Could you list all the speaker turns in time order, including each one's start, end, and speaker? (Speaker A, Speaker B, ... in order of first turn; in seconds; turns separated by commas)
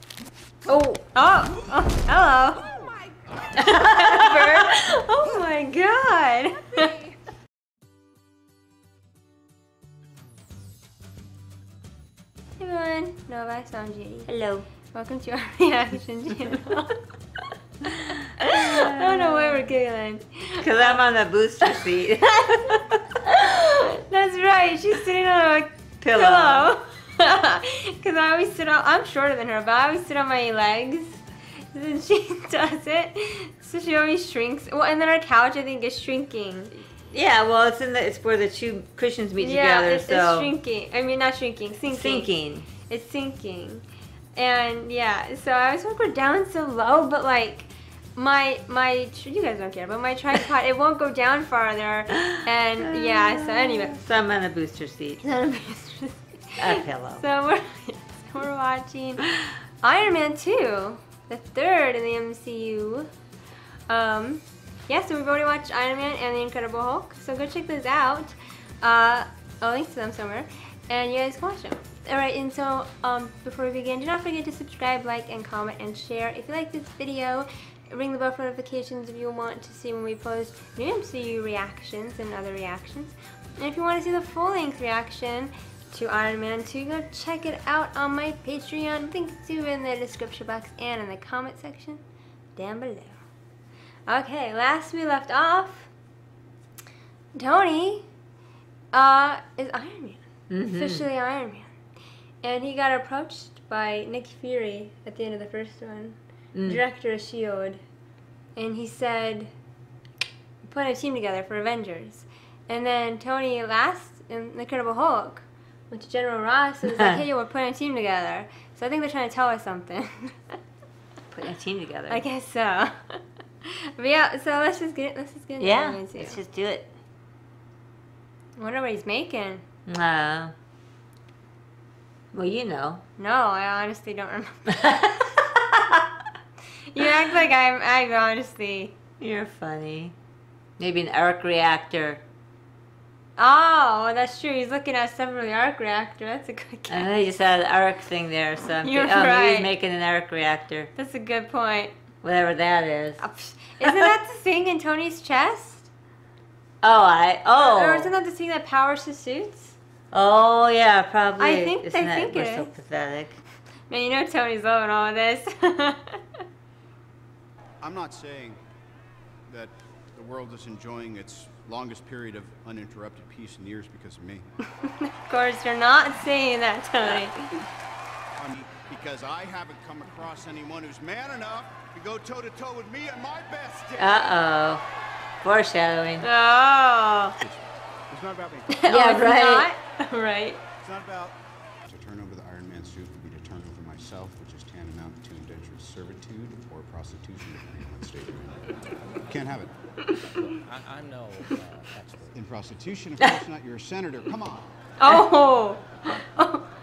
Speaker A: 0.7-1.0, Speaker B: 1.1-2.7, Speaker B: 3.5-7.0, Speaker A: 3.6-4.6, Speaker B: 12.6-14.3, Speaker A: 14.3-14.7, Speaker B: 14.9-17.0, Speaker B: 18.4-21.0, Speaker A: 18.5-19.6, Speaker A: 20.6-23.0, Speaker B: 23.2-36.7, Speaker A: 26.0-26.7, Speaker A: 37.1-40.5, Speaker B: 39.4-42.3, Speaker A: 41.9-42.7, Speaker B: 42.9-43.8, Speaker B: 44.4-54.0, Speaker A: 52.8-55.2, Speaker B: 55.2-56.6, Speaker A: 56.6-57.2, Speaker B: 57.2-59.3, Speaker B: 59.8-63.1, Speaker B: 63.9-92.0, Speaker B: 92.6-93.2, Speaker B: 94.1-95.9, Speaker B: 97.3-98.1, Speaker B: 98.9-101.7, Speaker A: 100.5-101.0, Speaker B: 102.4-107.8, Speaker A: 106.5-106.8, Speaker B: 108.6-109.5, Speaker B: 110.6-120.6, Speaker A: 121.3-122.2, Speaker B: 122.1-126.4, Speaker A: 125.6-126.9, Speaker B: 128.6-129.6, Speaker A: 129.9-130.5, Speaker A: 132.3-133.0, Speaker B: 133.2-135.2, Speaker B: 136.9-139.0, Speaker A: 139.2-140.1, Speaker A: 140.8-142.2, Speaker B: 143.4-147.1, Speaker A: 146.9-150.9, Speaker B: 148.8-149.7, Speaker B: 150.9-151.9, Speaker A: 152.2-153.2, Speaker B: 153.2-155.9, Speaker A: 156.8-158.1, Speaker B: 157.5-159.8, Speaker A: 160.1-163.4, Speaker B: 161.4-162.7, Speaker B: 163.9-166.2, Speaker C: 167.8-168.6, Speaker C: 169.5-174.5, Speaker B: 174.9-177.6, Speaker C: 178.4-184.2, Speaker A: 184.0-184.8, Speaker A: 185.4-186.3, Speaker B: 186.2-187.4, Speaker C: 187.4-188.8, Speaker B: 188.7-190.6, Speaker A: 188.9-189.7, Speaker C: 190.8-198.7, Speaker C: 199.3-199.7, Speaker D: 200.3-202.4, Speaker C: 202.3-204.7, Speaker B: 205.0-206.7